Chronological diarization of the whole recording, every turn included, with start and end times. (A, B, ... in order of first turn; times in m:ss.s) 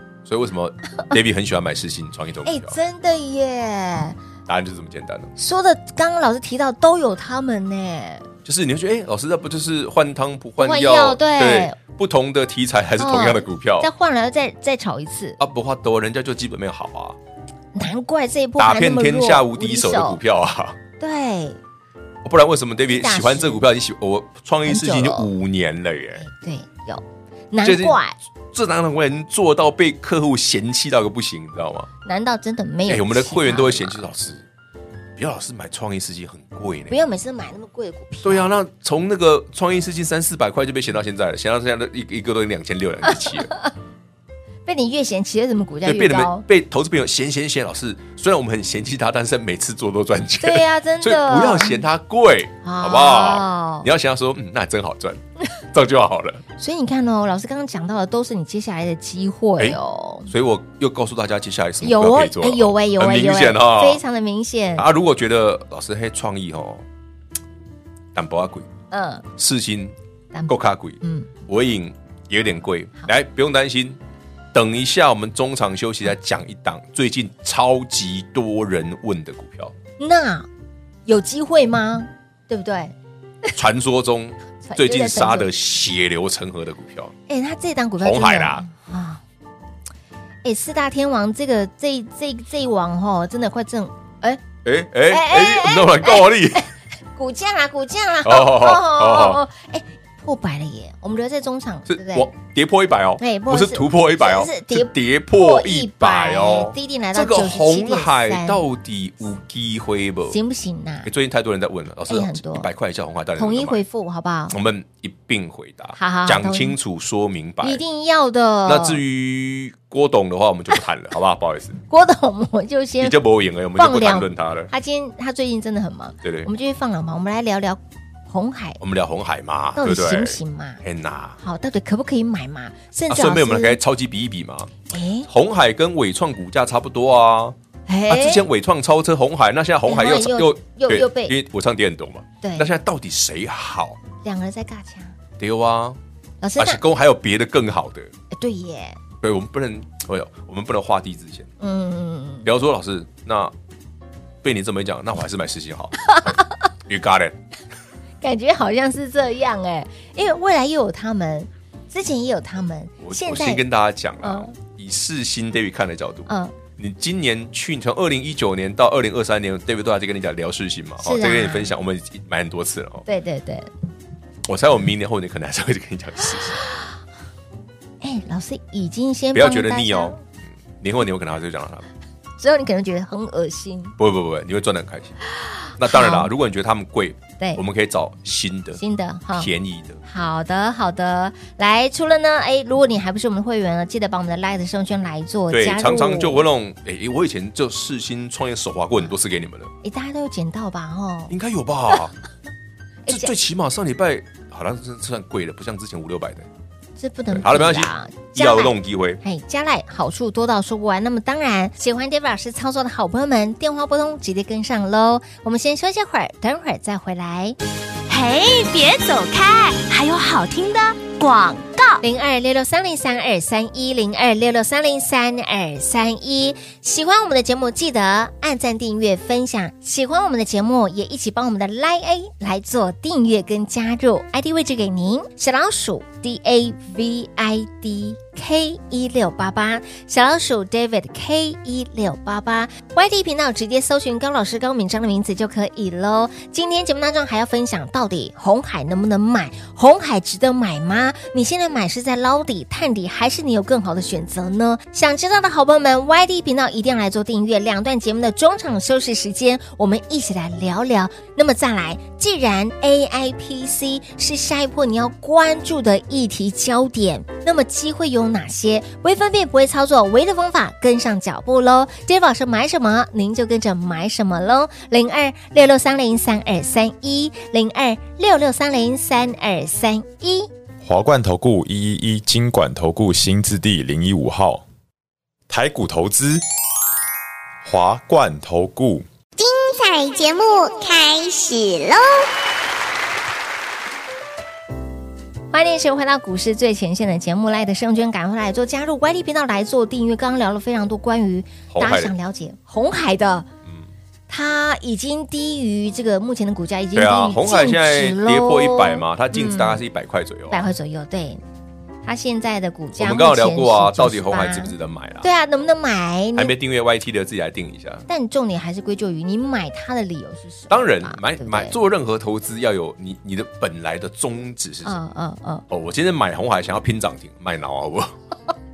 0:00.2-0:02.8 A
0:02.4-0:04.2 B
0:04.5-0:05.3 A
0:05.4-0:08.3 B
0:08.4-0:13.9 A
0:10.6-0:11.8 B
0:13.0-0:15.4 B
0:15.4-0:17.2 A
0:17.7-0:20.2 B
0:18.6-0:20.8 A
0:21.0-0:21.6 B
0:22.2-0:26.2 A
0:22.9-0:23.6 B
0:24.6-0:25.3 B
0:26.2-0:28.1 B
0:27.6-0:28.0 A
0:28.5-0:31.9 A
0:32.0-0:34.0 B
0:32.8-0:34.4 A
0:35.2-0:37.0 A
0:36.9-0:38.5 B
0:38.2-0:43.5 A
0:43.1-0:43.7 B
0:44.6-0:46.4 B
0:45.8-0:56.4 A
0:50.4-0:51.8 B
0:52.6-0:53.9 B
0:56.6-1:00.3 B
0:59.6-1:04.0 A
1:01.8-1:04.9 B
1:04.8-1:06.8 A
1:08.1-1:08.7 A
1:08.9-1:09.2 B
1:09.3-1:09.9 A
1:10.3-1:11.3 B
1:10.5-1:14.0 A
1:14.5-1:19.7 A
1:20.0-1:20.5 B
1:21.0-1:22.9 B
1:23.6-1:27.1 A
1:24.6-1:25.5 B
1:27.3-1:29.2 B
1:28.0-1:28.6 A
1:30.4-1:34.4 B
1:34.6-1:36.7 A
1:35.1-1:42.3 B
1:38.2-1:39.4 A
1:41.9-1:50.4 A
1:43.2-1:48.6 B
1:50.3-1:51.1 B
1:51.0-1:53.8 A
1:52.1-1:52.7 B
1:53.4-1:54.6 B
1:54.5-1:57.8 A
1:56.0-1:56.8 B
1:57.6-1:59.0 B
1:58.6-2:01.8 A
2:01.9-2:03.2 B
2:03.0-2:04.7 A
2:03.8-2:08.8 B
2:06.2-2:06.5 A
2:08.8-2:11.4 A
2:09.8-2:10.8 B
2:11.4-2:13.8 B
2:13.1-2:14.7 A
2:14.9-2:15.3 B
2:15.3-2:17.6 A
2:17.9-2:18.4 B
2:18.1-2:24.0 A
2:19.8-2:21.4 B
2:22.4-2:22.7 B
2:24.2-2:25.2 B
2:25.4-2:26.0 A
2:26.4-2:26.8 B
2:26.6-2:28.1 A
2:28.3-2:29.0 B
2:29.2-2:31.5 A
2:31.6-2:32.5 B
2:32.4-2:33.5 A
2:34.4-2:36.1 A
2:36.1-2:36.4 B
2:36.8-2:37.4 A
2:38.2-2:43.6 B
2:43.0-2:53.0 A
2:44.2-2:44.5 B
2:46.3-2:46.5 B
2:51.0-2:51.7 B
2:53.0-2:53.7 B
2:54.4-2:56.6 A
2:58.0-3:00.2 B
2:59.3-3:00.2 A
3:00.8-3:01.9 A
3:02.4-3:04.0 B
3:04.0-3:05.2 A
3:05.4-3:06.3 B
3:05.8-3:08.8 A
3:08.8-3:09.5 B
3:09.3-3:10.0 A
3:10.0-3:16.4 B
3:15.5-3:19.7 A
3:19.8-3:21.3 B
3:21.3-3:22.1 A
3:23.0-3:23.3 B
3:23.1-3:26.5 A
3:27.0-3:37.6 B
3:27.3-3:29.2 A
3:38.1-3:42.0 C
3:42.0-4:40.5 B
4:40.8-4:44.6 D
4:45.5-4:46.4 D
4:47.6-4:49.0 D
4:49.4-4:52.3 E
4:55.5-5:03.5 B
5:01.7-5:02.1 A
5:04.3-5:09.8 B
5:06.9-5:10.7 A
5:10.5-5:11.4 B
5:12.0-5:16.5 B
5:13.0-5:15.3 A
5:16.4-5:18.0 A
5:18.1-5:21.8 B
5:20.7-5:25.0 A
5:24.8-5:25.6 B
5:25.7-5:28.2 A